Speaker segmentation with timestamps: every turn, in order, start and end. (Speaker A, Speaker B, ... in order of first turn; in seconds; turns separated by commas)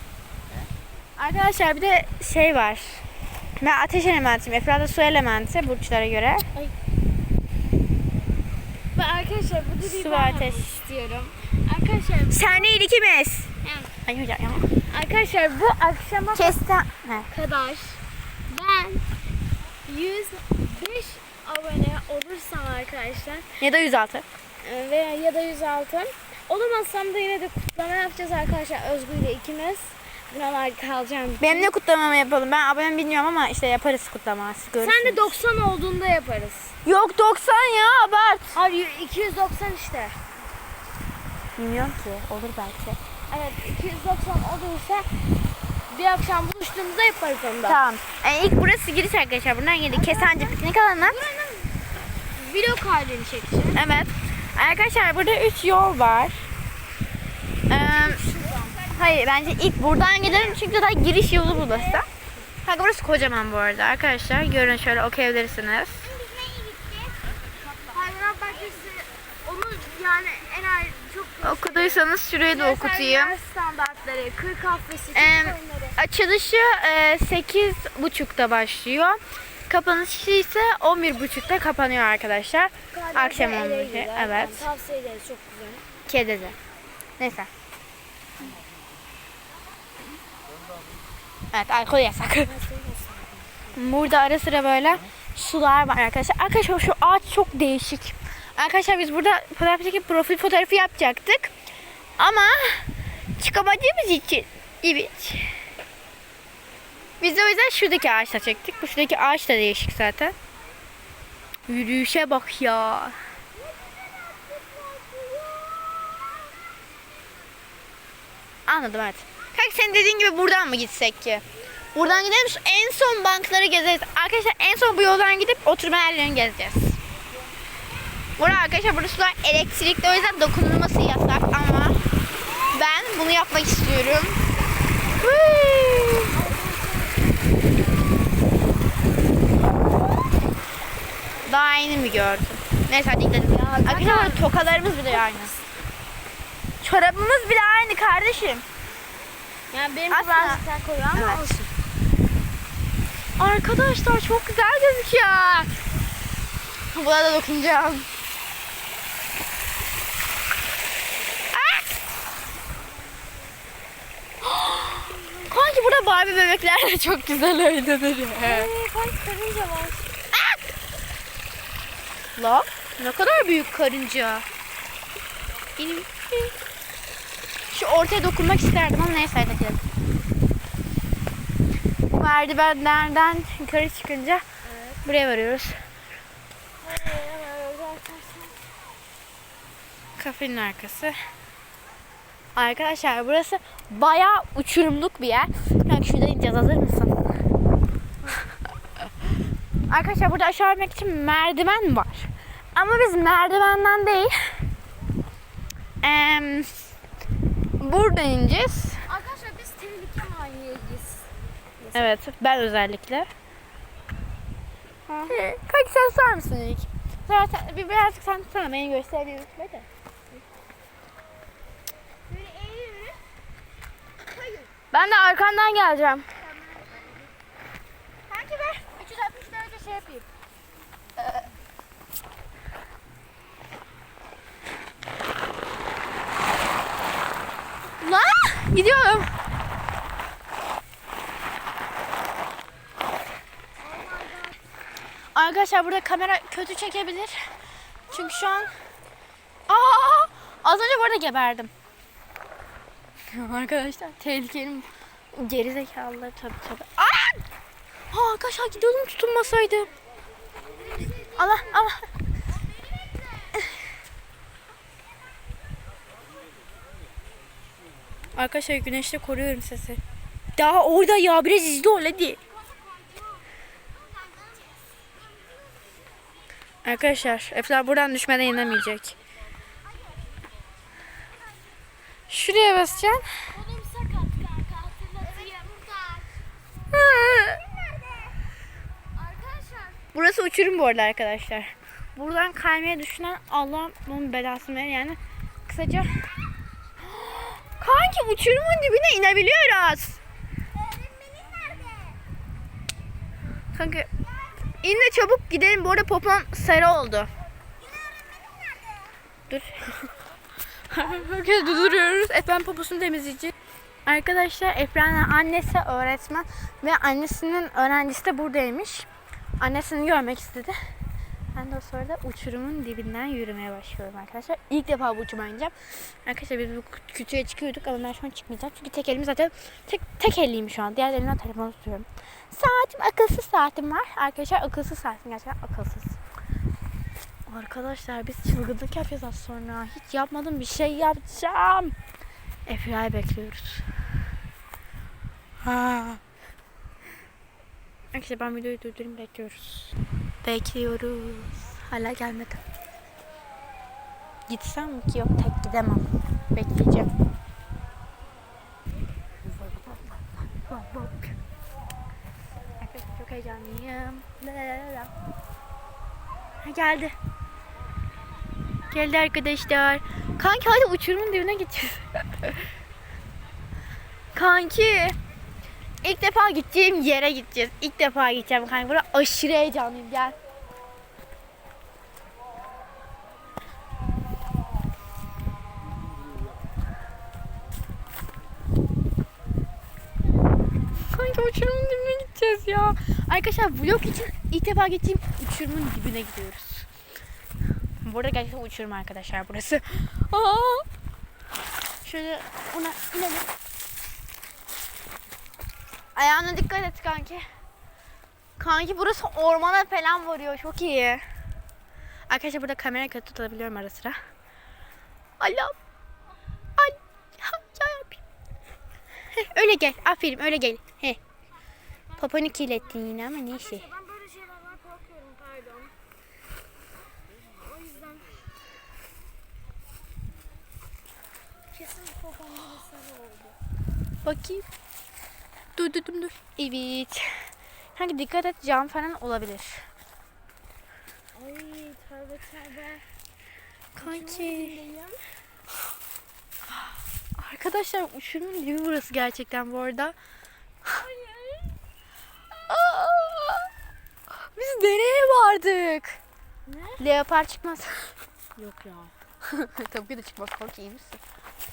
Speaker A: 1.2-3.0, Speaker A: 3.6-6.7, Speaker B: 8.9-12.8, Speaker A: 9.8-10.7, Speaker A: 12.3-13.5, Speaker B: 13.6-13.9, Speaker A: 14.1-14.7, Speaker B: 14.9-16.6, Speaker A: 16.3-17.3, Speaker B: 17.3-19.1, Speaker B: 19.9-23.6, Speaker A: 23.6-24.2, Speaker B: 24.6-31.7, Speaker A: 31.4-35.4, Speaker B: 34.8-36.8, Speaker A: 36.8-38.6, Speaker B: 38.5-40.2, Speaker A: 41.6-43.0, Speaker B: 43.3-45.1, Speaker B: 45.9-47.8, Speaker A: 47.6-51.2, Speaker B: 49.9-53.8, Speaker A: 53.7-56.5, Speaker A: 57.7-58.2, Speaker B: 57.7-58.9, Speaker A: 58.9-62.1, Speaker B: 61.5-62.1, Speaker A: 62.6-66.1, Speaker B: 66.1-67.1, Speaker B: 67.9-76.0, Speaker A: 71.4-73.4, Speaker A: 75.1-84.7, Speaker B: 82.9-85.8, Speaker A: 86.1-86.6, Speaker A: 87.2-87.5, Speaker A: 91.5-92.5, Speaker B: 92.4-93.7, Speaker A: 93.7-101.5, Speaker A: 102.2-105.6, Speaker A: 107.2-110.3, Speaker A: 111.7-113.2, Speaker B: 113.8-116.3, Speaker A: 118.7-127.0, Speaker A: 128.4-132.0, Speaker A: 132.7-134.4, Speaker A: 135.2-136.3, Speaker B: 136.3-137.7, Speaker A: 141.4-145.5, Speaker B: 143.4-144.5, Speaker B: 145.1-145.6, Speaker A: 146.8-148.7, Speaker B: 149.7-151.7, Speaker A: 150.1-150.6, Speaker A: 151.1-151.7, Speaker A: 153.4-155.7, Speaker A: 156.9-158.1, Speaker A: 161.5-161.9, Speaker B: 164.6-165.5, Speaker A: 165.5-168.7, Speaker B: 168.3-170.1, Speaker A: 170.3-170.6, Speaker A: 172.4-174.5, Speaker A: 175.8-176.5, Speaker A: 177.7-179.8, Speaker A: 182.2-184.4, Speaker A: 185.0-185.9, Speaker B: 186.8-188.6, Speaker A: 190.2-191.2, Speaker A: 192.6-197.4, Speaker A: 199.9-204.6, Speaker A: 206.0-206.8, Speaker A: 207.8-209.0, Speaker B: 209.1-212.2, Speaker A: 211.9-213.3, Speaker A: 215.1-219.9, Speaker B: 222.3-223.2, Speaker B: 224.3-226.8, Speaker A: 228.3-228.9, Speaker B: 229.0-230.3, Speaker A: 231.2-231.5, Speaker A: 238.0-239.3, Speaker B: 243.8-244.6, Speaker A: 245.3-247.5, Speaker A: 248.1-248.8, Speaker A: 249.7-251.7, Speaker A: 253.3-257.4, Speaker A: 258.1-259.9, Speaker B: 260.7-261.9, Speaker A: 261.3-262.1, Speaker A: 268.4-270.0, Speaker A: 270.6-272.4, Speaker B: 272.6-273.5, Speaker A: 276.8-279.2, Speaker A: 282.3-283.4, Speaker B: 283.5-286.4, Speaker A: 286.9-287.7, Speaker B: 289.1-290.0, Speaker A: 290.1-296.4, Speaker A: 297.1-300.2, Speaker B: 301.6-302.1, Speaker A: 303.7-304.1, Speaker A: 304.8-307.3, Speaker A: 309.5-310.1, Speaker A: 310.9-313.5, Speaker A: 314.1-319.1, Speaker A: 319.6-320.8, Speaker A: 321.6-336.2, Speaker A: 337.5-341.9, Speaker A: 342.7-343.9, Speaker A: 345.6-346.2, Speaker A: 348.1-352.6, Speaker A: 354.5-357.1, Speaker A: 359.6-361.4, Speaker A: 362.8-365.1, Speaker A: 366.6-367.1, Speaker A: 368.9-372.7, Speaker A: 374.3-375.2, Speaker A: 376.0-380.4, Speaker A: 391.0-396.9, Speaker A: 398.0-400.9, Speaker A: 402.0-403.5, Speaker A: 406.1-407.4, Speaker A: 408.6-411.2, Speaker A: 412.3-414.2, Speaker A: 415.4-415.8, Speaker A: 416.8-418.2, Speaker A: 419.3-421.2, Speaker B: 422.1-425.9, Speaker A: 422.2-423.9, Speaker B: 427.6-428.4, Speaker B: 431.7-433.6, Speaker A: 434.2-434.6, Speaker A: 435.8-439.9, Speaker B: 441.3-443.1, Speaker A: 443.9-444.8, Speaker B: 444.0-445.3, Speaker A: 446.7-450.1, Speaker B: 450.9-451.8, Speaker A: 452.7-453.7, Speaker A: 454.3-456.2, Speaker B: 456.7-457.0, Speaker A: 457.0-458.1, Speaker B: 458.6-459.1, Speaker A: 459.4-461.2